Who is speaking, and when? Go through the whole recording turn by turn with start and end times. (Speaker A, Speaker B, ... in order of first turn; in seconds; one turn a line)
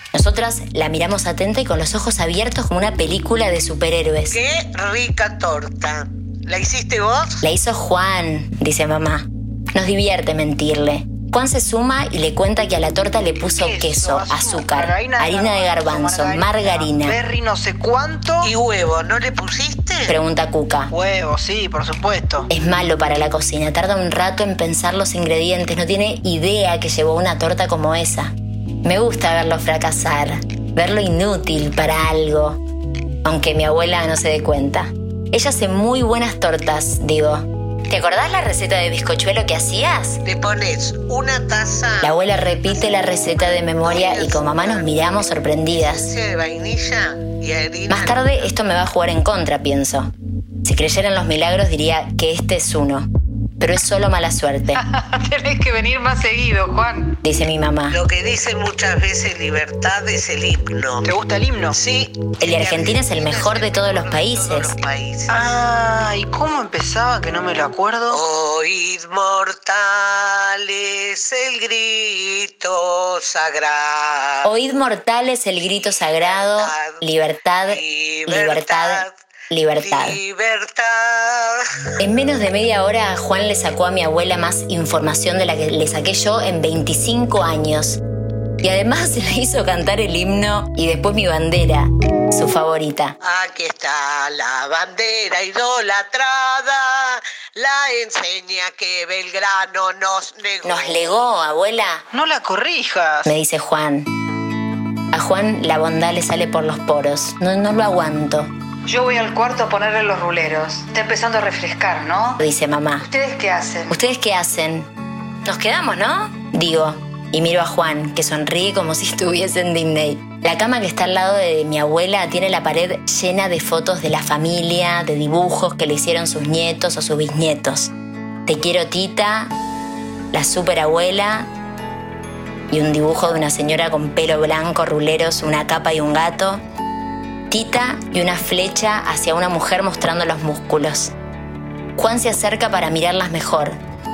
Speaker A: 0.1-4.4
Speaker B: 4.3-7.5
Speaker A: 7.4-17.2
Speaker C: 13.4-18.5
Speaker B: 18.4-20.1
Speaker A: 20.1-20.9
Speaker C: 20.9-22.5
Speaker A: 22.5-28.3
Speaker A: 28.8-32.6
Speaker A: 33.2-40.2
Speaker B: 40.2-44.8
Speaker A: 42.0-46.1
Speaker B: 45.7-48.2
Speaker A: 47.9-50.1
Speaker A: 50.6-53.1
Speaker A: 53.6-54.8
Speaker D: 54.7-57.1
Speaker A: 57.2-58.0
Speaker B: 57.9-61.1
Speaker C: 61.0-61.8
Speaker B: 61.7-65.4
Speaker A: 62.4-64.7
Speaker C: 65.3-68.2
Speaker B: 68.1-74.5
Speaker A: 74.4-80.2
Speaker B: 75.6-77.0
Speaker B: 77.7-79.1
Speaker B: 79.8-81.6
Speaker A: 82.0-88.0
Speaker A: 88.6-93.2
Speaker B: 93.2-101.1
Speaker A: 100.6-102.0
Speaker C: 102.1-103.3
Speaker A: 103.2-104.1
Speaker A: 105.1-108.5
Speaker D: 108.8-112.4
Speaker A: 112.4-113.1
Speaker D: 113.0-114.0
Speaker A: 113.9-114.9
Speaker A: 115.4-127.9
Speaker A: 128.4-129.5
Speaker A: 130.3-131.5
Speaker A: 132.7-136.6
Speaker A: 137.5-141.1
Speaker A: 141.9-143.8